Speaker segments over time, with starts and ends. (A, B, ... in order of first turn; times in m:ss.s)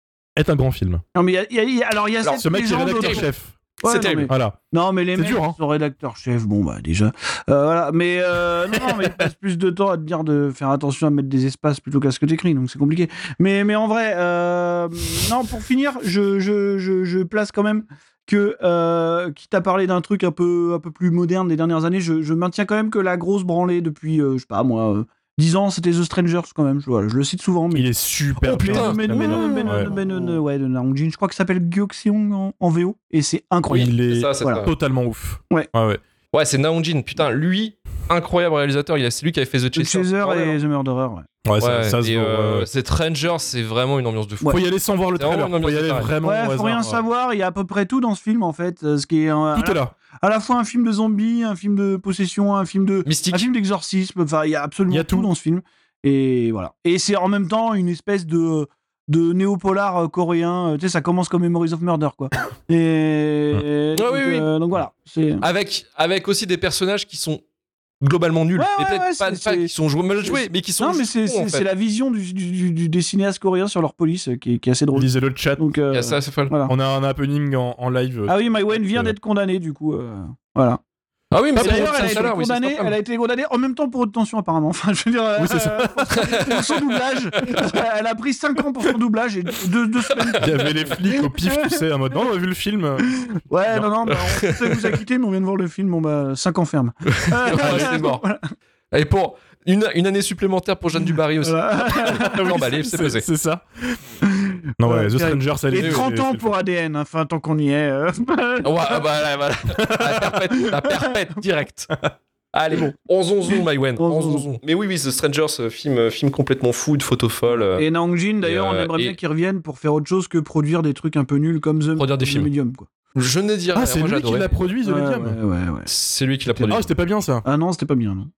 0:00.4-0:01.0 A
0:01.2-0:03.3 B
0:02.2-0:03.2 C
0:02.4-0:03.6 A
0:03.8-0:04.3 C
0:03.8-0:27.9 B
0:04.3-0:04.6 A
0:05.2-0:05.6 A
0:27.7-0:29.9 A
0:28.4-0:33.9 B
0:28.7-0:29.7 C
0:33.7-0:36.0 A
0:33.7-0:34.7 C
0:36.3-0:40.6 C
0:39.8-0:41.3 B
0:41.4-0:42.7 A
0:41.6-0:44.6 C
0:44.5-0:47.0 A
0:45.2-0:46.1 C
0:46.2-1:05.4 B
0:49.5-0:49.9 A
0:53.1-0:53.4 C
0:54.9-0:55.3 A
1:04.0-1:04.5 C
1:05.4-1:07.4 C
1:08.0-1:11.6 C
1:08.6-1:09.7 B
1:10.2-1:16.7 B
1:14.9-1:15.6 A
1:15.9-1:16.5 C
1:16.7-1:19.2 A
1:18.3-1:20.8 B
1:21.3-1:23.0 C
1:21.6-1:22.2 A
1:21.6-1:31.8 B
1:25.4-1:26.4 A
1:26.1-1:26.6 C
1:27.4-1:27.7 C
1:30.4-1:33.1 A
1:33.0-1:38.4 B
1:34.1-1:34.7 C
1:37.1-1:38.2 C
1:37.6-1:38.0 A
1:38.9-1:43.3 C
1:41.4-1:42.5 B
1:42.0-1:44.1 A
1:44.2-1:49.0 B
1:44.8-1:46.5 A
1:45.8-1:46.0 C
1:48.6-1:51.9 C
1:49.9-1:50.3 A
1:52.5-1:57.9 C
1:54.0-1:54.5 B
1:57.8-2:02.9 B
1:58.4-1:59.2 C
2:02.0-2:02.5 C
2:03.2-2:04.6 C
2:03.7-2:05.4 A
2:04.8-2:05.9 B
2:05.9-2:06.9 C
2:06.5-2:06.8 B
2:06.7-2:07.4 A
2:07.4-2:08.3 B